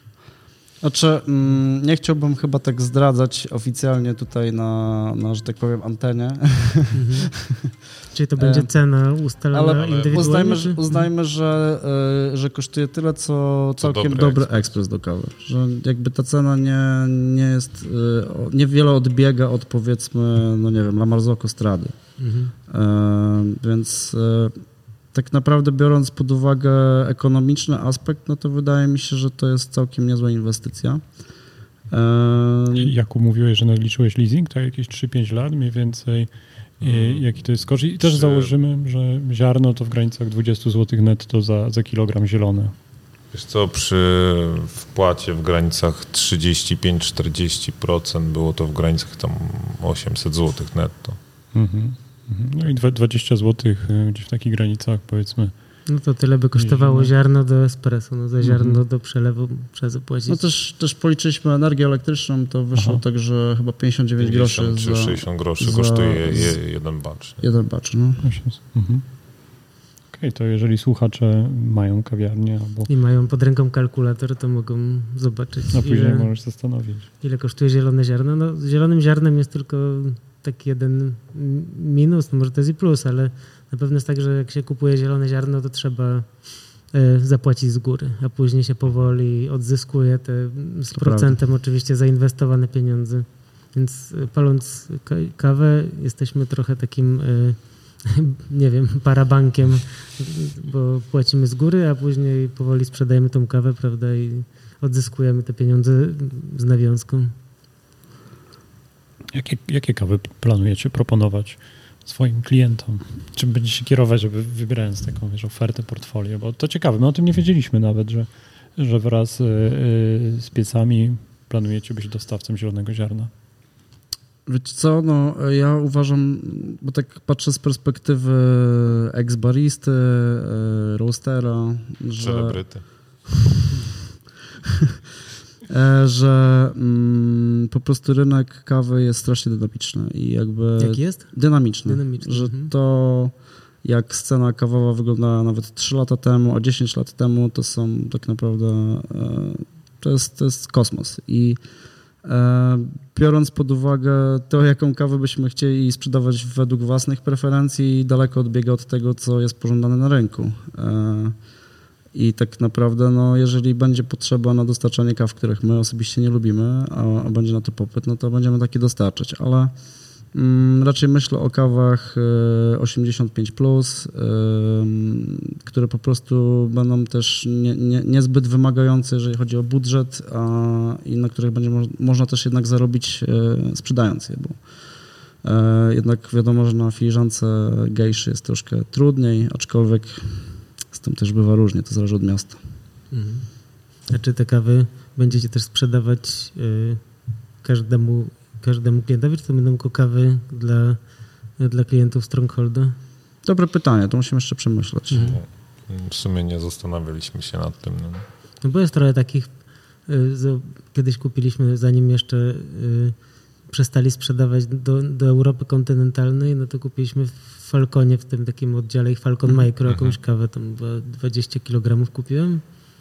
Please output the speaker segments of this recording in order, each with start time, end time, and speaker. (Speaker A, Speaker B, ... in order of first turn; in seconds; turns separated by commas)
Speaker A: 0.8-7.7, Speaker B: 6.9-11.1, Speaker A: 8.4-8.7, Speaker A: 9.5-22.0, Speaker C: 9.8-10.5, Speaker C: 13.8-14.7, Speaker B: 22.2-22.5, Speaker A: 22.7-31.2, Speaker A: 31.9-32.9, Speaker D: 32.7-42.7, Speaker C: 36.8-38.5, Speaker C: 43.3-51.2, Speaker D: 51.5-55.8, Speaker B: 55.9-60.4, Speaker D: 56.5-57.1, Speaker D: 58.4-58.8, Speaker A: 60.3-66.6, Speaker D: 62.7-63.0, Speaker C: 64.2-67.4, Speaker A: 67.4-68.2, Speaker D: 68.2-69.1, Speaker D: 70.1-72.9, Speaker B: 72.9-76.3, Speaker D: 75.7-77.1, Speaker B: 77.2-107.3, Speaker A: 90.9-91.4, Speaker D: 109.3-123.3, Speaker A: 124.5-133.0, Speaker C: 132.2-132.9, Speaker A: 135.7-151.6, Speaker B: 140.8-142.7, Speaker A: 152.2-161.3, Speaker A: 162.1-169.8, Speaker A: 170.3-184.7, Speaker A: 185.4-192.6, Speaker B: 193.1-197.1, Speaker B: 197.6-202.9, Speaker A: 203.4-205.4, Speaker B: 205.1-205.4, Speaker C: 205.2-208.2, Speaker B: 208.6-209.5, Speaker B: 210.0-222.6, Speaker C: 219.9-220.2